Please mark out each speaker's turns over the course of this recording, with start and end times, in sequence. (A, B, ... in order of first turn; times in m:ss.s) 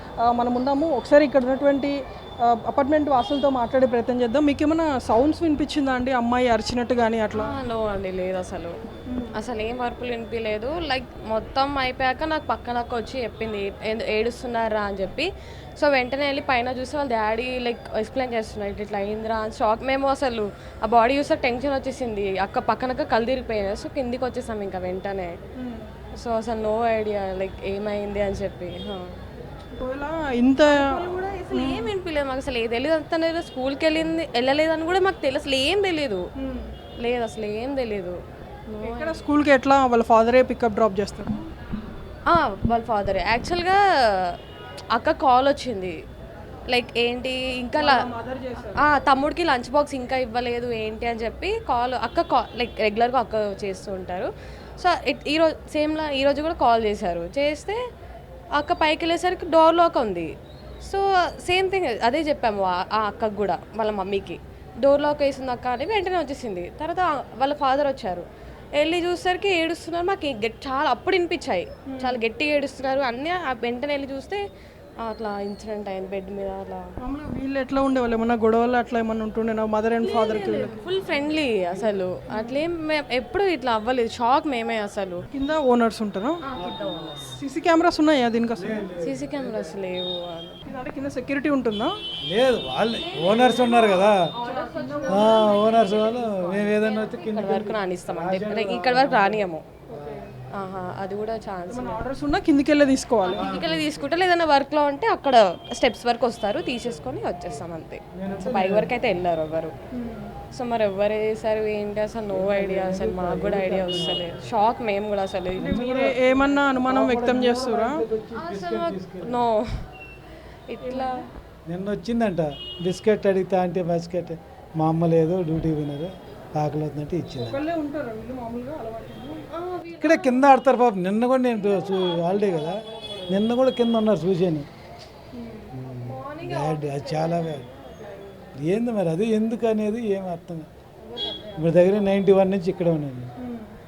0:00.2-0:07.5 A
0:07.3-0:08.7 B
0:09.1-0:09.4 A
0:09.3-0:25.3 B
0:25.6-0:25.9 A
0:26.1-0:29.0 B
0:29.8-0:30.9 A
0:30.7-0:36.3 B
0:31.5-0:31.9 A
0:36.4-0:36.7 A
0:37.0-0:38.2 B
0:38.7-0:39.3 B
0:38.8-0:41.4 A
0:42.3-0:44.4 B
0:45.0-0:45.9 B
0:46.7-0:48.0 B
0:47.8-0:48.8 A
0:48.7-0:57.8 B
0:58.6-1:00.3 B
1:00.8-1:08.2 B
1:08.8-1:14.4 B
1:11.9-1:12.2 A
1:15.0-1:16.8 B
1:17.0-1:20.9 A
1:20.0-1:25.2 B
1:21.3-1:22.1 C
1:22.3-1:22.6 A
1:25.3-1:26.4 A
1:26.4-1:27.3 B
1:26.5-1:27.4 C
1:27.3-1:28.8 A
1:28.5-1:29.8 C
1:29.0-1:30.6 B
1:30.6-1:32.0 A
1:32.2-1:34.2 C
1:32.9-1:39.6 B
1:34.4-1:35.6 A
1:35.1-1:40.8 C
1:39.9-1:40.3 A
1:40.5-1:42.0 B
1:41.7-1:43.5 A
1:43.2-1:49.7 B
1:43.3-1:44.1 C
1:46.6-1:49.2 C
1:49.9-1:50.3 A
1:50.5-1:55.8 B
1:52.3-1:54.5 C
1:55.6-1:59.5 C
1:55.6-1:58.0 A
1:58.3-1:59.6 B
2:00.7-2:01.2 B
2:00.8-2:01.3 A
2:01.7-2:07.6 C
2:07.3-2:09.4 A
2:09.5-2:10.5 B
2:10.0-2:14.7 C
2:11.5-2:13.4 B
2:15.4-2:15.7 A
2:15.7-2:17.6 C
2:16.0-2:18.6 B
2:18.6-2:20.7 C
2:21.0-2:22.3 B
2:21.6-2:23.3 C
2:23.4-2:23.7 A